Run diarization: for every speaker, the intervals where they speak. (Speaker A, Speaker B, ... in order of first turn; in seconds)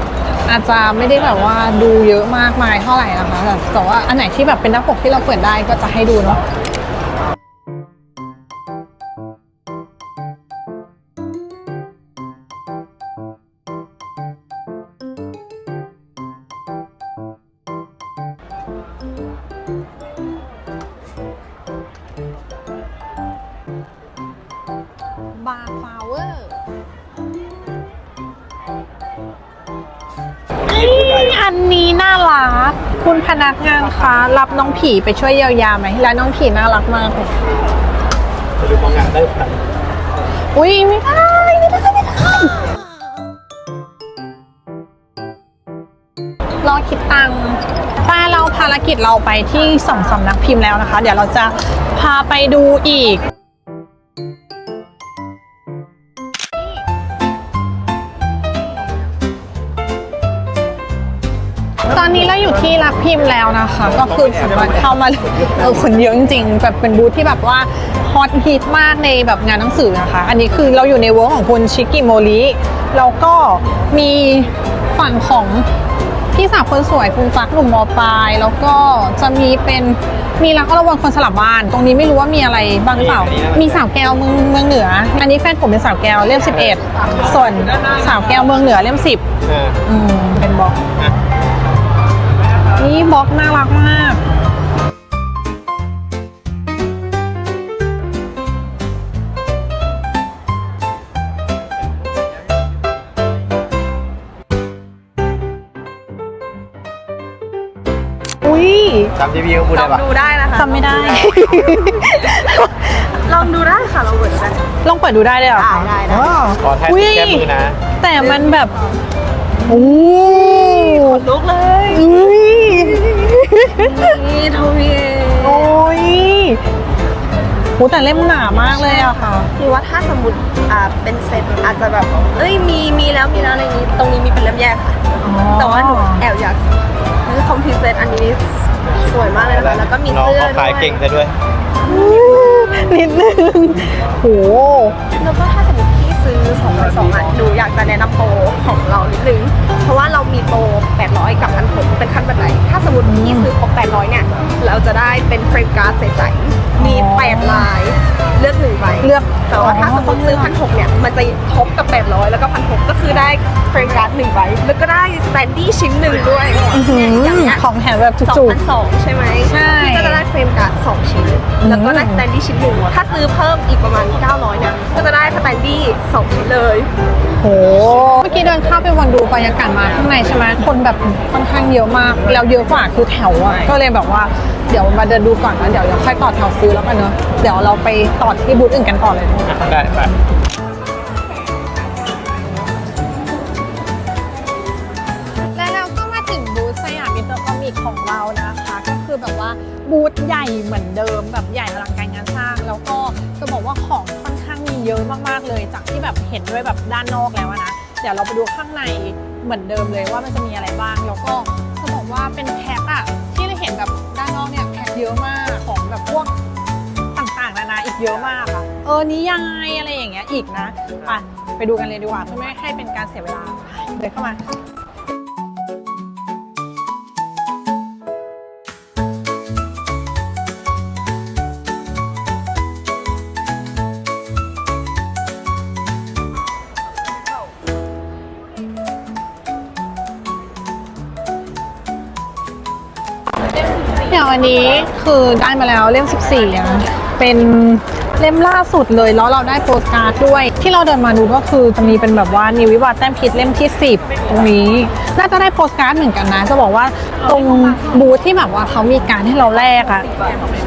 Speaker A: 0.5-6.4, 25.3-26.6, 30.6-37.3, 40.5-42.8, 46.6-53.2, 61.9-75.7, 76.3-89.2, 89.8-90.8, 92.7-94.2, 108.4-109.1, 110.5-113.0, 114.8-117.5, 118.0-118.7, 119.7-121.2, 121.9-124.1, 125.4-126.6, 127.8-129.5, 135.2-136.2, 141.8-145.0, 153.0-153.5, 156.8-157.7, 159.0-160.5, 166.7-168.6, 169.4-170.2, 171.6-172.2, 177.4-189.6, 195.5-216.3, 217.1-224.4, 244.0-260.1
Speaker B: 30.6-31.4, 38.6-39.7, 63.8-65.5, 82.9-83.8, 89.4-89.8, 109.2-110.0, 116.6-117.8, 139.0-141.3, 189.5-190.1
Speaker C: 109.7-114.6, 115.5-116.4, 119.7-125.8, 128.6-135.0, 135.5-136.6, 137.2-141.0, 145.1-167.6, 168.2-176.9